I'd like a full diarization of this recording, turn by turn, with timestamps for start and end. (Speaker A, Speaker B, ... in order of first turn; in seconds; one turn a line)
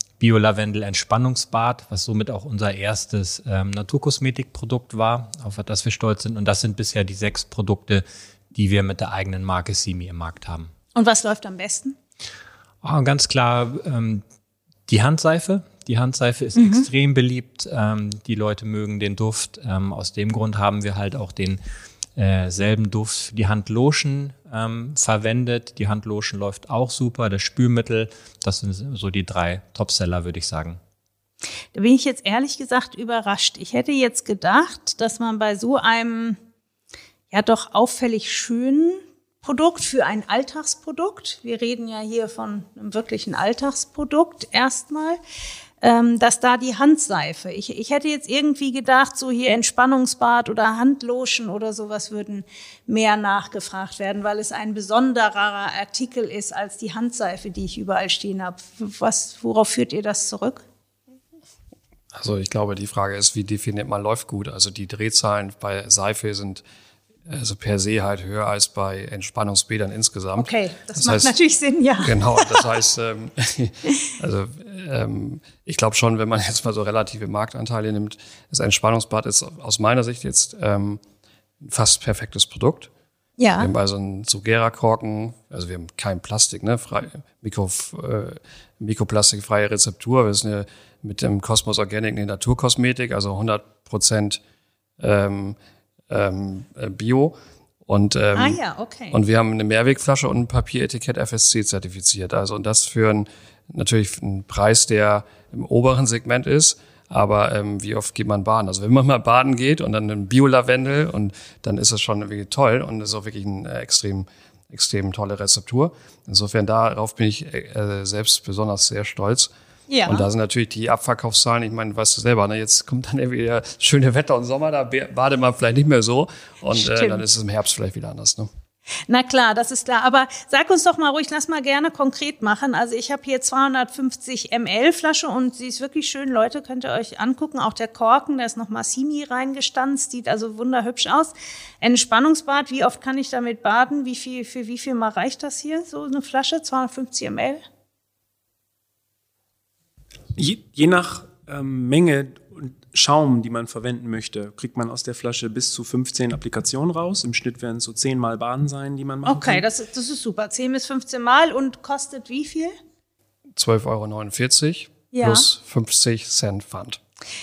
Speaker A: 0.2-10.7
Speaker B: 10.9-11.9
Speaker A: 12.8-14.2
Speaker A: 14.9-21.6
Speaker B: 16.6-16.9
Speaker A: 22.1-30.8
Speaker B: 31.7-36.4
Speaker B: 37.3-45.2
Speaker B: 45.8-60.6
Speaker C: 62.1-66.6
Speaker C: 67.3-71.3
Speaker B: 70.4-72.7
Speaker C: 72.0-81.0
Speaker C: 81.6-82.9
Speaker B: 83.4-83.7
Speaker C: 83.6-94.4
Speaker C: 95.0-95.5
Speaker C: 96.1-98.6
Speaker B: 98.3-99.2
Speaker C: 99.1-119.5
Speaker B: 119.9-120.3
Speaker C: 120.0-128.5
Speaker B: 126.7-127.2
Speaker B: 129.1-147.6
Speaker D: 150.3-159.6
Speaker B: 159.2-162.7
Speaker C: 163.6-167.0
Speaker B: 165.1-165.5